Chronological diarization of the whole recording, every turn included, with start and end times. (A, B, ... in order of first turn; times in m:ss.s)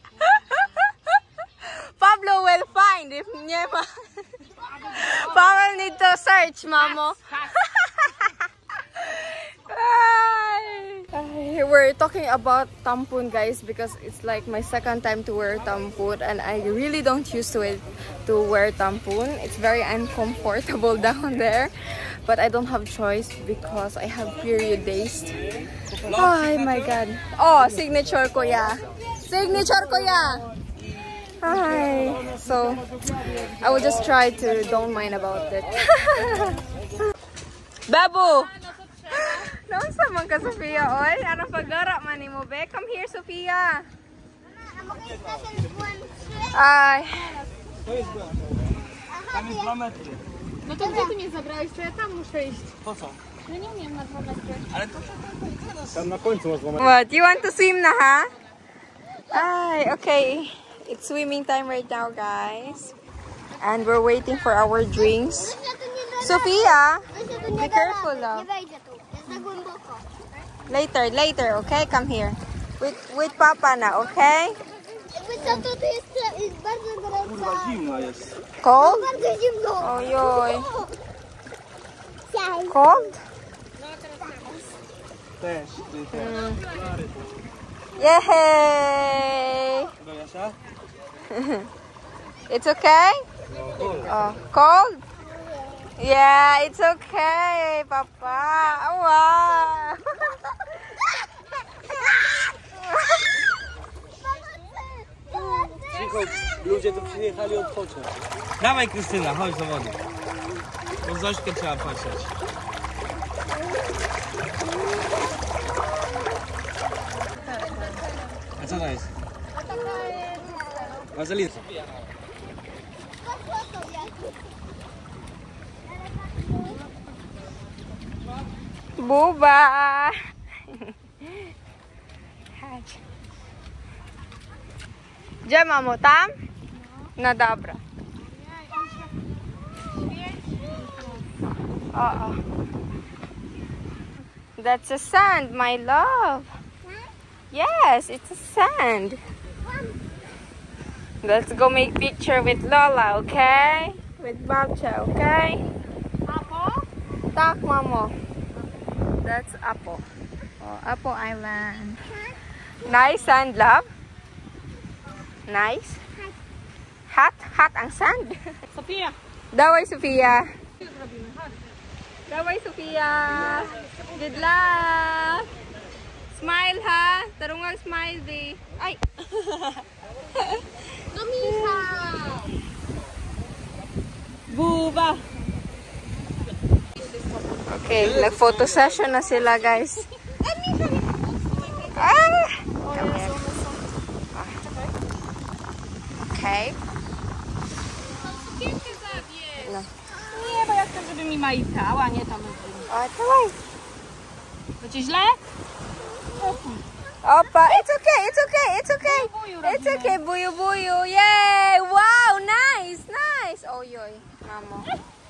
0:00.2-0:25.5 A
0:26.1-0:30.5 A
0:26.1-0:26.8 B
0:31.4-0:32.9 A
0:33.5-0:36.6 A
0:37.8-0:43.9 A
0:44.7-0:46.3 C
0:46.5-0:47.4 A
0:47.8-0:50.2 B
0:50.6-0:52.7 D
0:52.8-0:53.2 B
0:53.4-0:54.6 D
0:54.7-0:56.7 B
0:56.7-0:58.3 A
0:59.3-1:02.9 A
1:03.6-1:05.6 A
1:05.6-1:06.4 C
1:06.1-1:08.5 A
1:07.2-1:10.0 C
1:10.7-1:14.6 A
1:15.1-1:17.7 C
1:15.4-1:15.7 A
1:17.2-1:18.4 B
1:18.6-1:19.1 A
1:19.1-1:19.8 C
1:19.8-1:20.7 A
1:22.3-1:22.7 C
1:22.7-1:23.2 A
1:25.4-1:27.0 B
1:26.1-1:26.6 A
1:28.0-1:29.9 A
1:30.0-1:30.6 B
1:31.3-1:31.7 A
1:32.5-1:33.2 A
1:33.5-1:34.1 B
1:34.0-1:35.0 A
1:36.0-1:40.8 A
1:42.6-1:43.1 A
1:45.7-1:50.0 B
1:50.9-1:52.3 B
1:58.6-1:59.1 B
1:59.7-2:00.9 C
2:01.1-2:02.0 B
2:03.2-2:04.2 C
2:09.0-2:10.2 A
2:10.7-2:11.3 A
2:12.5-2:13.0 A
2:15.4-2:16.3 A
2:17.2-2:17.8 A
2:21.9-2:22.4 A
2:24.6-2:26.5 A
2:27.5-2:29.2 A
2:31.2-2:35.6 A
2:36.3-2:36.9 D
2:37.3-2:38.1 A
2:39.2-2:40.0 A
2:40.6-2:42.1 A
2:42.8-2:43.9 A
2:45.5-2:46.0 A
2:47.1-2:48.6 A
2:48.7-2:49.2 D
2:49.5-2:50.5 A
2:50.9-2:51.5 D
2:52.3-2:55.5 A
2:56.3-3:02.0 A
3:01.2-3:02.5 D
3:04.5-3:05.2 A
3:07.7-3:10.1 A
3:10.5-3:11.2 D
3:11.8-3:13.4 A
3:12.9-3:13.9 D
3:14.3-3:14.6 A
3:16.2-3:16.8 A
3:18.2-3:19.6 D
3:19.6-3:19.9 A
3:20.2-3:22.9 D
3:22.9-3:23.6 A
3:24.8-3:25.4 D
3:26.4-3:26.8 D
3:27.2-3:34.9 A
3:29.0-3:30.1 D